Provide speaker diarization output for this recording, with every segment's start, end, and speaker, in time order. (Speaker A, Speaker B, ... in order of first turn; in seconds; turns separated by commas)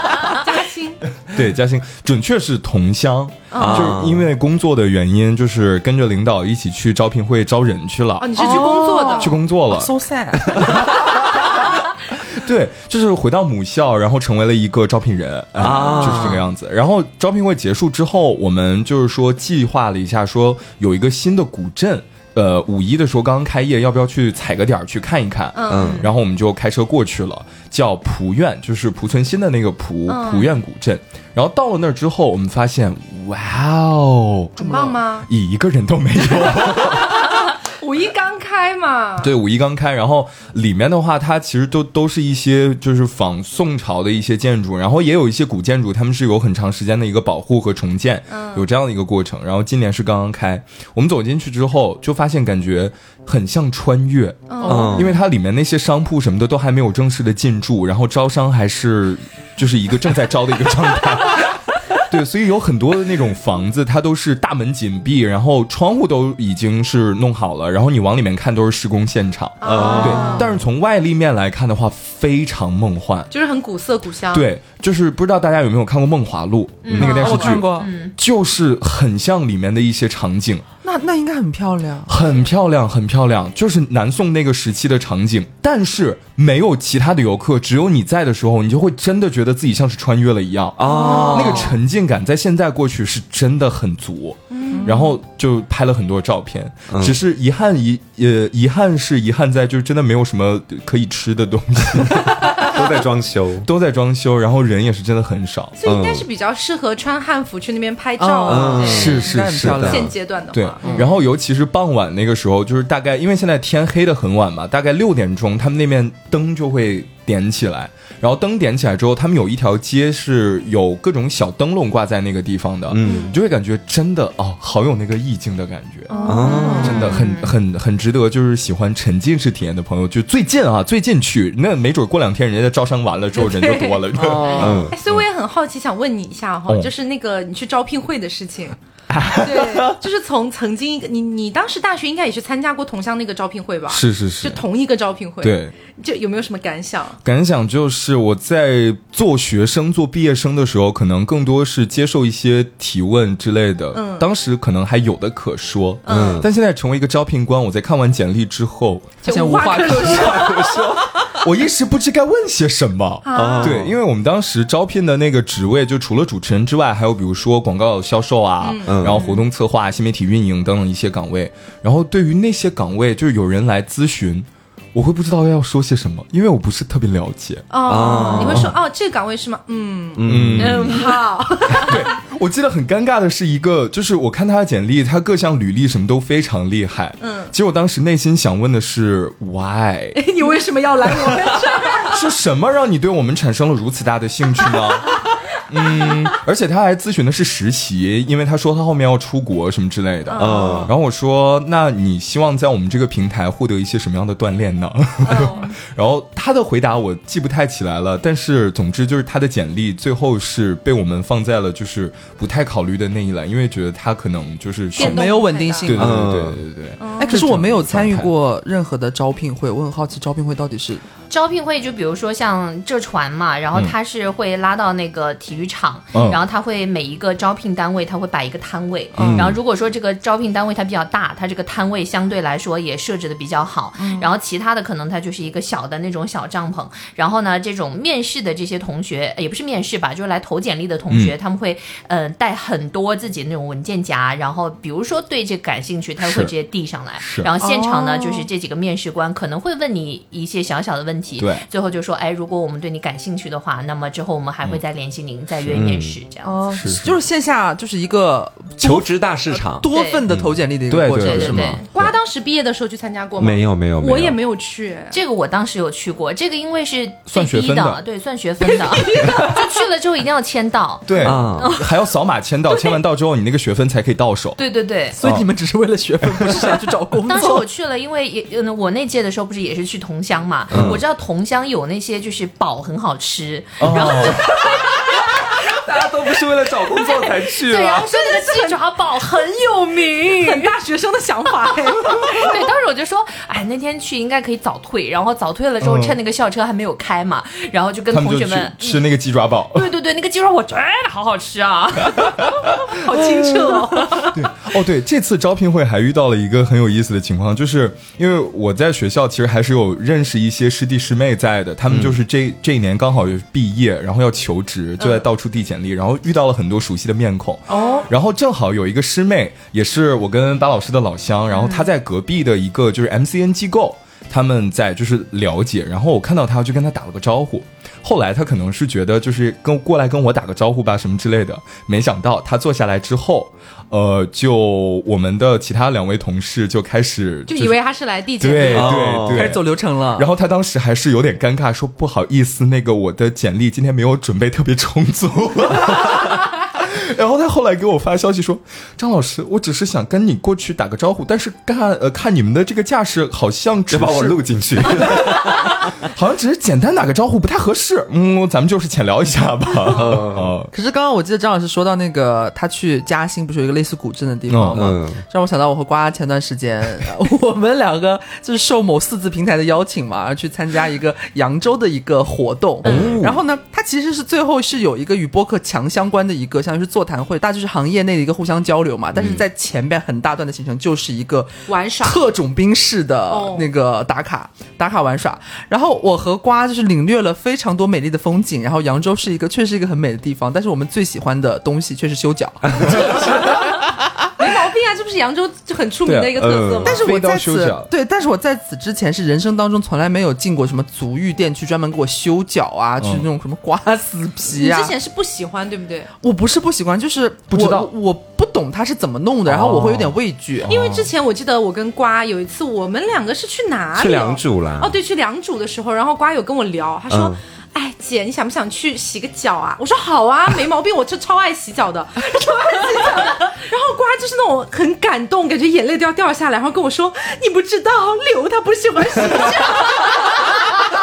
Speaker A: 0.2-1.0, Speaker B: 1.3-9.9, Speaker A: 3.5-4.0, Speaker C: 3.6-4.3, Speaker A: 8.2-9.3, Speaker D: 8.4-10.9, Speaker B: 10.5-37.2, Speaker C: 15.6-16.4, Speaker D: 15.7-16.3, Speaker A: 15.7-16.2, Speaker A: 25.5-26.0, Speaker C: 25.7-26.0, Speaker E: 25.8-26.1, Speaker A: 30.1-30.5, Speaker A: 34.6-35.3, Speaker A: 36.6-39.3, Speaker B: 39.2-73.3, Speaker A: 48.3-48.6, Speaker A: 54.5-55.2, Speaker C: 54.6-55.1, Speaker A: 69.6-70.5, Speaker C: 69.6-70.4, Speaker E: 70.0-70.3, Speaker D: 70.1-70.4, Speaker A: 73.3-74.5, Speaker B: 74.3-80.6, Speaker E: 76.8-78.1, Speaker D: 76.9-77.9, Speaker D: 80.8-82.2, Speaker B: 82.1-102.8, Speaker C: 90.8-91.7, Speaker D: 90.9-91.6, Speaker A: 94.5-95.0, Speaker D: 94.8-95.0, Speaker C: 96.9-97.1, Speaker C: 102.5-103.7, Speaker B: 103.6-105.7, Speaker A: 105.8-109.2, Speaker C: 105.8-106.2, Speaker D: 108.2-110.1, Speaker C: 108.5-110.0, Speaker E: 108.8-109.1, Speaker B: 109.0-135.2, Speaker A: 109.8-111.0, Speaker D: 110.8-111.1, Speaker C: 122.9-123.3, Speaker A: 126.1-127.1, Speaker C: 126.2-127.0, Speaker E: 126.4-127.5, Speaker A: 133.4-134.0, Speaker D: 134.2-134.8, Speaker C: 134.3-134.9, Speaker A: 134.6-138.8, Speaker B: 139.1-140.0, Speaker A: 139.4-147.2, Speaker B: 143.9-144.6, Speaker B: 145.4-145.7, Speaker B: 147.2-159.2, Speaker A: 153.9-154.2, Speaker A: 156.1-156.4, Speaker C: 156.1-156.5, Speaker D: 159.2-161.0, Speaker A: 159.2-160.8, Speaker C: 159.8-161.1, Speaker B: 161.4-177.7, Speaker A: 163.2-163.8, Speaker C: 163.3-163.9, Speaker A: 168.6-168.9, Speaker C: 168.8-169.2, Speaker E: 169.0-169.4, Speaker A: 177.7-182.2, Speaker C: 177.8-178.7, Speaker B: 178.3-178.7, Speaker C: 180.2-181.0, Speaker B: 180.2-181.0, Speaker E: 180.6-181.2, Speaker B: 181.7-190.2, Speaker A: 187.2-187.5, Speaker A: 190.1-192.2, Speaker B: 191.1-191.5, Speaker B: 192.0-218.3, Speaker A: 200.3-200.9, Speaker C: 200.4-200.9, Speaker A: 205.2-205.7, Speaker A: 215.0-215.9, Speaker D: 215.0-216.3, Speaker C: 215.9-216.6, Speaker A: 217.0-217.5, Speaker D: 217.2-221.0, Speaker E: 221.3-256.6, Speaker B: 226.1-226.4, Speaker D: 229.2-229.5, Speaker C: 229.2-229.5, Speaker A: 234.0-234.2, Speaker B: 241.1-241.3, Speaker B: 246.2-246.5, Speaker B: 247.2-247.5, Speaker A: 247.6-248.5, Speaker B: 251.4-251.7, Speaker C: 255.7-256.1, Speaker A: 256.4-256.9, Speaker B: 256.7-257.1, Speaker D: 256.9-261.8, Speaker C: 258.8-260.5, Speaker E: 259.9-260.2, Speaker B: 260.9-262.0, Speaker E: 261.2-261.8, Speaker A: 261.9-265.2, Speaker C: 263.4-264.4, Speaker E: 265.1-271.8, Speaker B: 267.3-268.0, Speaker A: 268.6-269.8, Speaker B: 271.1-274.6, Speaker C: 271.2-271.7, Speaker E: 274.6-275.2, Speaker D: 275.1-277.6, Speaker B: 275.2-275.5, Speaker E: 277.3-285.2, Speaker C: 280.7-281.0, Speaker B: 283.8-284.4, Speaker A: 284.4-285.2, Speaker C: 285.7-288.0, Speaker A: 286.7-288.9, Speaker E: 287.6-290.6, Speaker A: 290.1-292.6, Speaker E: 292.3-298.9, Speaker B: 295.8-296.1, Speaker B: 298.1-299.9, Speaker E: 299.7-302.5, Speaker A: 302.7-304.3, Speaker E: 303.7-304.3, Speaker B: 304.3-337.8, Speaker C: 311.9-312.1, Speaker A: 317.7-318.1, Speaker E: 321.5-321.9, Speaker A: 337.5-339.0, Speaker B: 338.4-339.6, Speaker C: 338.7-339.6, Speaker D: 339.3-340.3, Speaker B: 340.1-360.7, Speaker C: 353.9-355.8, Speaker C: 359.9-360.6, Speaker D: 360.7-393.8, Speaker B: 364.5-364.9, Speaker C: 364.7-365.2, Speaker C: 372.8-373.4, Speaker C: 379.1-379.4, Speaker A: 381.7-382.2, Speaker A: 383.3-383.7, Speaker C: 392.8-393.0, Speaker A: 393.1-393.5, Speaker A: 394.4-397.0, Speaker B: 396.1-397.9, Speaker C: 396.4-397.0, Speaker D: 396.8-404.9, Speaker B: 403.0-403.2, Speaker A: 404.5-406.1, Speaker D: 406.2-410.7, Speaker B: 407.5-407.9, Speaker C: 409.6-409.9, Speaker B: 409.6-410.1, Speaker B: 410.6-411.0, Speaker A: 410.7-430.6, Speaker C: 413.9-414.9, Speaker C: 417.1-417.4, Speaker D: 422.8-423.1